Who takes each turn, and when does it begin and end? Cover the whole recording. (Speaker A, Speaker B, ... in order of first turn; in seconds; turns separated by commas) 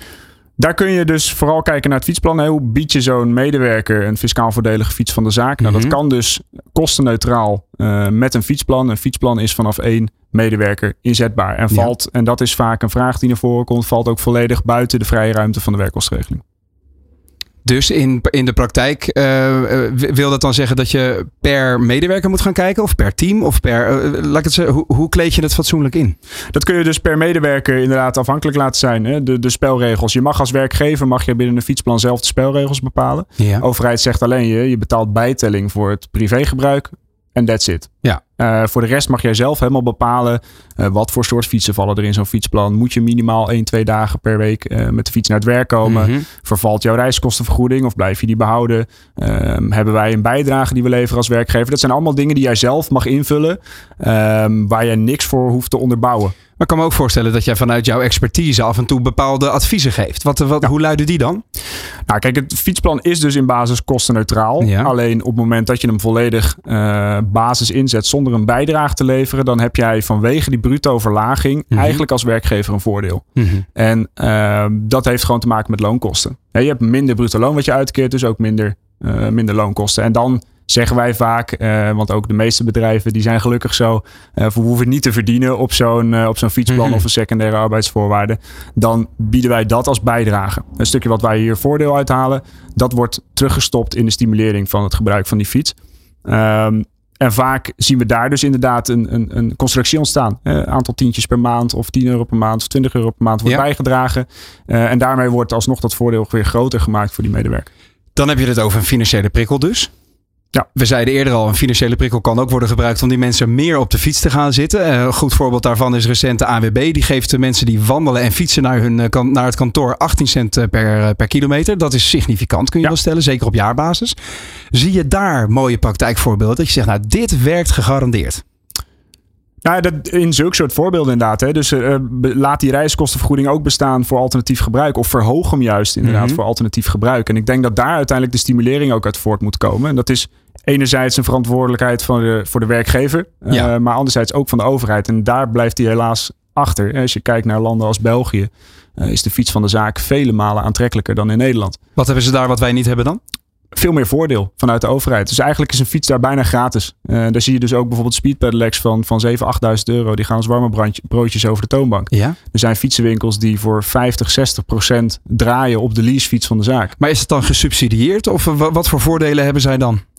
Speaker A: 0.6-16.4, Speaker B: 5.6-6.0, Speaker B: 17.6-26.2, Speaker A: 26.5-56.4, Speaker B: 33.4-33.6, Speaker B: 45.9-46.2, Speaker B: 56.6-61.4, Speaker A: 62.1-107.7, Speaker B: 64.6-64.9, Speaker B: 71.7-72.0, Speaker B: 73.4-73.7, Speaker B: 86.7-87.0, Speaker B: 108.2-109.9, Speaker B: 110.8-124.2, Speaker B: 124.7-128.4, Speaker A: 129.6-151.8, Speaker B: 136.0-136.4, Speaker B: 152.0-153.2, Speaker A: 153.7-167.0, Speaker B: 162.1-162.4, Speaker B: 167.0-170.0